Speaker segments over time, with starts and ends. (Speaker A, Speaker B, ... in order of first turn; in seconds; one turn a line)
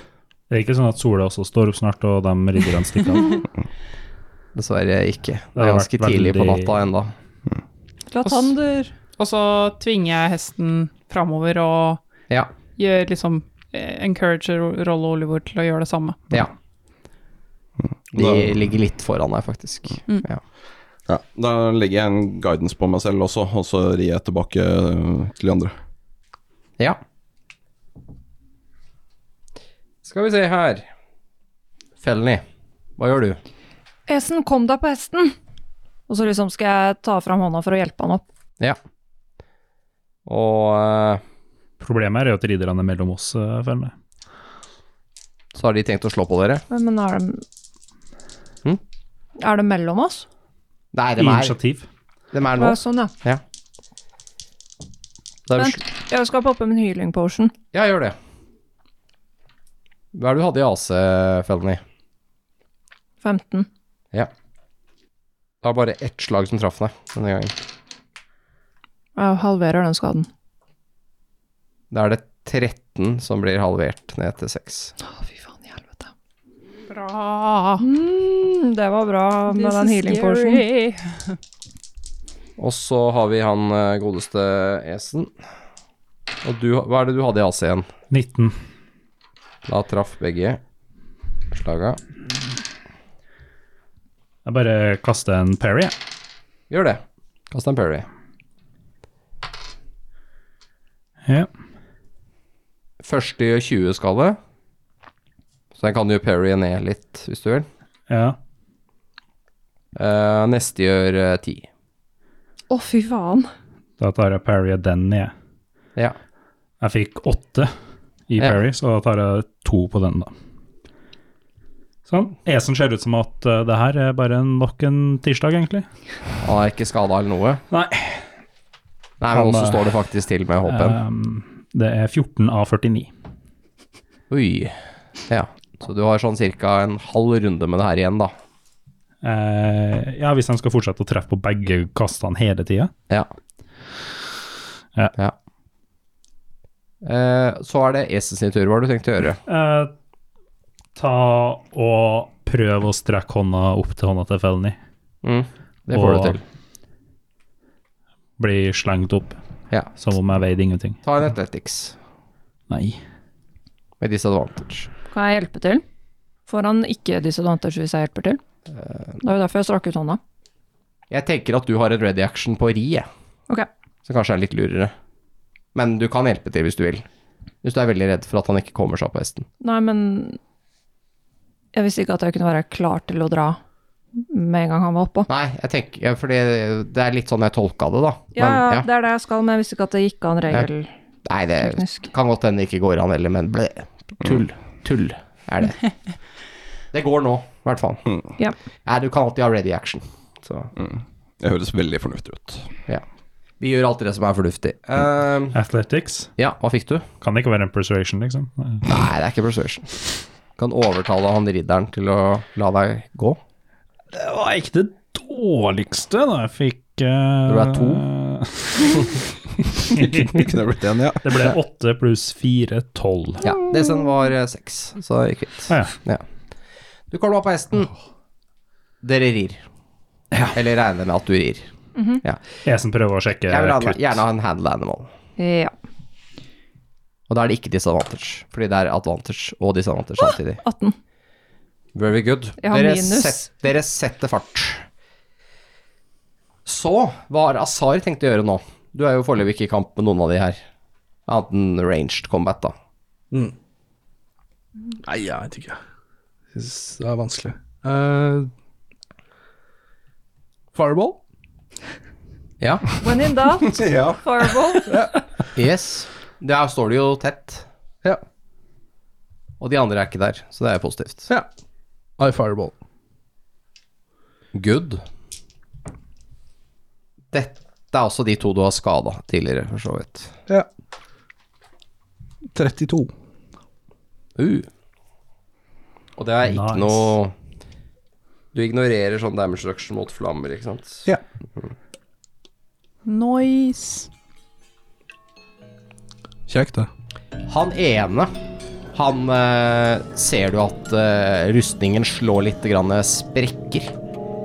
Speaker A: 0.5-3.4
Speaker B: 4.5-7.1
Speaker A: 5.5-6.7
Speaker C: 8.1-8.9
Speaker D: 8.2-8.5
Speaker D: 9.2-12.0
Speaker D: 12.8-16.3
Speaker E: 17.8-18.5
Speaker B: 18.1-20.4
Speaker E: 21.1-25.7
Speaker B: 30.0-30.9
Speaker B: 32.0-32.4
Speaker B: 33.0-33.4
Speaker C: 34.1-35.4
Speaker C: 36.1-38.2
Speaker B: 40.2-41.2
Speaker A: 41.8-43.9
Speaker B: 45.5-46.6
Speaker C: 46.7-47.4
Speaker C: 49.4-50.2
Speaker B: 50.9-51.5
Speaker A: 51.2-51.9
Speaker B: 52.3-53.4
Speaker C: 52.6-53.1
Speaker B: 55.5-55.8
Speaker C: 55.5-57.5
Speaker B: 57.7-58.1
Speaker B: 60.1-61.8
Speaker C: 63.2-63.7
Speaker B: 65.6-67.5
Speaker C: 69.2-70.3
Speaker B: 71.9-74.9
Speaker C: 75.0-76.1
Speaker D: 76.9-77.8
Speaker C: 77.8-80.6
Speaker D: 79.5-81.4
Speaker B: 82.6-85.3
Speaker B: 86.4-87.9
Speaker A: 88.1-88.6
Speaker B: 89.6-90.6
Speaker B: 91.5-92.0
Speaker A: 94.5-95.9
Speaker B: 96.7-98.1
Speaker B: 103.0-104.4
Speaker B: 105.7-107.7
Speaker A: 108.1-108.4
Speaker B: 109.9-111.7
Speaker C: 112.7-113.5
Speaker A: 114.0-115.3
Speaker A: 116.8-117.7
Speaker A: 118.3-120.3
Speaker A: 122.1-125.9
Speaker B: 126.4-127.6
Speaker A: 127.7-128.2
Speaker B: 129.2-131.0
Speaker A: 129.3-129.9
Speaker A: 130.7-133.1
Speaker B: 134.3-134.8
Speaker B: 135.3-138.3
Speaker A: 139.2-142.9
Speaker B: 147.0-149.4
Speaker A: 149.5-149.9
Speaker A: 150.9-154.8
Speaker B: 155.2-156.4
Speaker A: 155.9-156.4
Speaker A: 158.4-159.4
Speaker A: 160.0-161.0
Speaker B: 161.0-161.9
Speaker A: 162.7-163.0
Speaker B: 164.0-164.9
Speaker C: 165.1-165.8
Speaker C: 166.5-168.4
Speaker C: 169.2-170.2
Speaker B: 171.1-173.1
Speaker B: 174.0-174.9
Speaker B: 175.7-177.1
Speaker B: 177.6-179.5
Speaker C: 179.6-180.4
Speaker C: 181.7-183.6
Speaker C: 184.2-185.3
Speaker B: 185.3-188.9
Speaker C: 188.3-190.9
Speaker B: 191.2-195.8
Speaker C: 191.6-192.1
Speaker B: 196.9-198.0
Speaker B: 198.8-200.7
Speaker E: 200.8-202.7
Speaker B: 203.6-205.6
Speaker A: 205.5-206.3
Speaker B: 206.4-207.1
Speaker A: 207.2-208.9
Speaker B: 208.8-209.9
Speaker B: 210.6-213.4
Speaker A: 214.1-220.5
Speaker B: 217.5-218.0
Speaker E: 220.3-221.5
Speaker A: 221.2-223.4
Speaker B: 223.4-226.2
Speaker A: 225.7-225.9
Speaker B: 227.1-227.9
Speaker B: 229.0-229.6
Speaker B: 230.5-231.7
Speaker C: 231.9-232.2
Speaker A: 232.6-234.2
Speaker B: 233.4-235.1
Speaker C: 235.4-235.7
Speaker B: 237.3-240.6
Speaker C: 240.2-240.9
Speaker B: 241.9-244.8
Speaker C: 242.6-243.5
Speaker B: 246.6-250.6
Speaker B: 251.3-252.7
Speaker F: 255.0-255.8
Speaker F: 256.5-258.5
Speaker F: 260.7-261.2
Speaker B: 262.6-262.8
Speaker C: 263.0-264.9
Speaker E: 263.8-264.2
Speaker F: 264.9-265.2
Speaker B: 265.5-267.7
Speaker B: 269.6-271.3
Speaker F: 272.2-272.7
Speaker B: 274.5-275.0
Speaker B: 277.3-280.3
Speaker F: 282.5-283.1
Speaker B: 284.4-284.7
Speaker B: 286.2-287.3
Speaker A: 286.4-287.1
Speaker B: 288.5-291.0
Speaker D: 293.1-294.1
Speaker F: 296.5-296.9
Speaker B: 297.5-298.3
Speaker B: 298.9-303.9